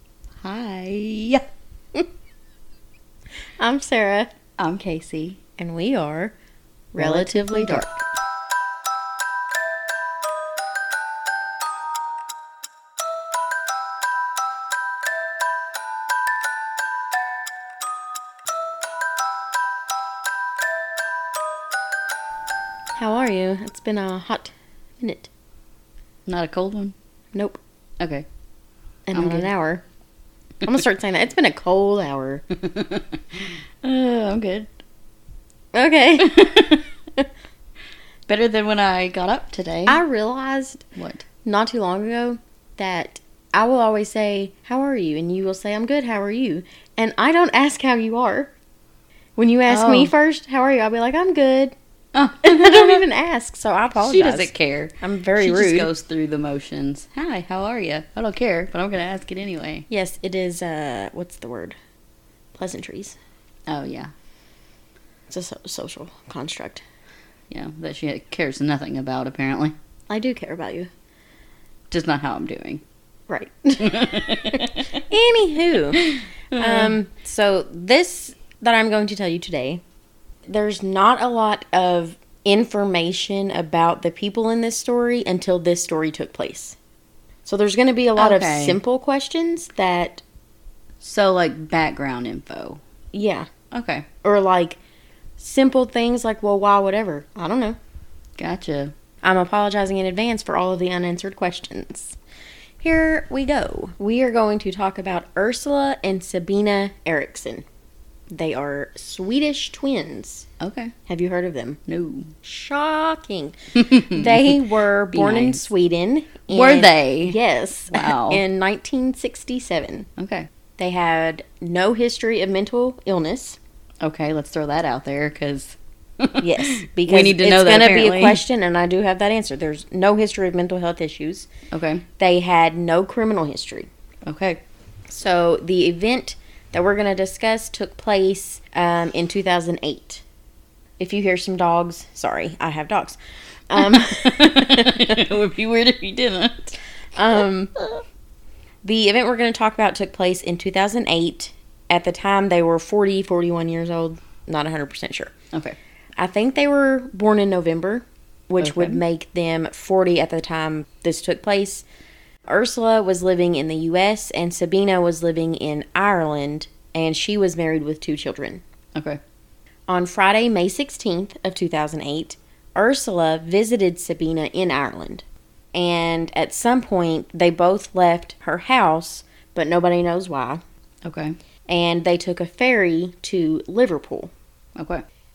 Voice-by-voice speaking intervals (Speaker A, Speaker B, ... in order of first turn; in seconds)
Speaker A: 0.4-1.4, 4.6-5.4, 7.0-7.9, 26.3-26.9, 28.0-28.3, 29.1-29.5, 32.5-34.7, 36.2-36.8, 38.3-40.0, 41.0-41.2, 49.7-50.1, 52.1-53.0, 54.0-59.9, 63.7-64.1, 67.5-69.8, 71.9-72.8, 73.8-74.9, 75.9-77.0, 88.2-88.8, 91.0-92.8, 93.7-94.1, 98.4-98.9, 110.6-110.9, 111.9-112.3, 113.8-115.6, 116.5-117.4, 117.9-118.4, 120.2-120.5, 124.0-128.4, 131.7-132.1, 134.2-134.6, 143.8-146.7, 155.5-155.8, 158.6-159.0, 168.9-169.2, 181.0-181.4, 184.8-185.1
Speaker B: 3.6-4.3, 5.6-6.3, 6.9-7.9, 23.0-25.3, 27.3-27.6, 29.1-29.8, 30.6-32.5, 35.7-36.5, 39.9-40.9, 41.5-48.5, 49.4-51.8, 52.4-55.9, 59.9-61.8, 62.6-63.2, 65.3-66.8, 70.1-70.9, 73.3-73.9, 74.6-79.8, 80.5-86.8, 87.5-90.2, 93.1-93.5, 94.2-94.8, 95.4-97.8, 99.2-102.2, 102.8-107.7, 108.3-110.5, 111.1-111.8, 112.4-120.1, 120.8-123.6, 126.4-131.5, 132.2-133.9, 135.1-140.2, 141.0-143.2, 143.7-145.2, 147.2-147.7, 148.8-155.3, 156.2-161.8, 162.5-168.6, 169.9-180.6, 181.7-184.3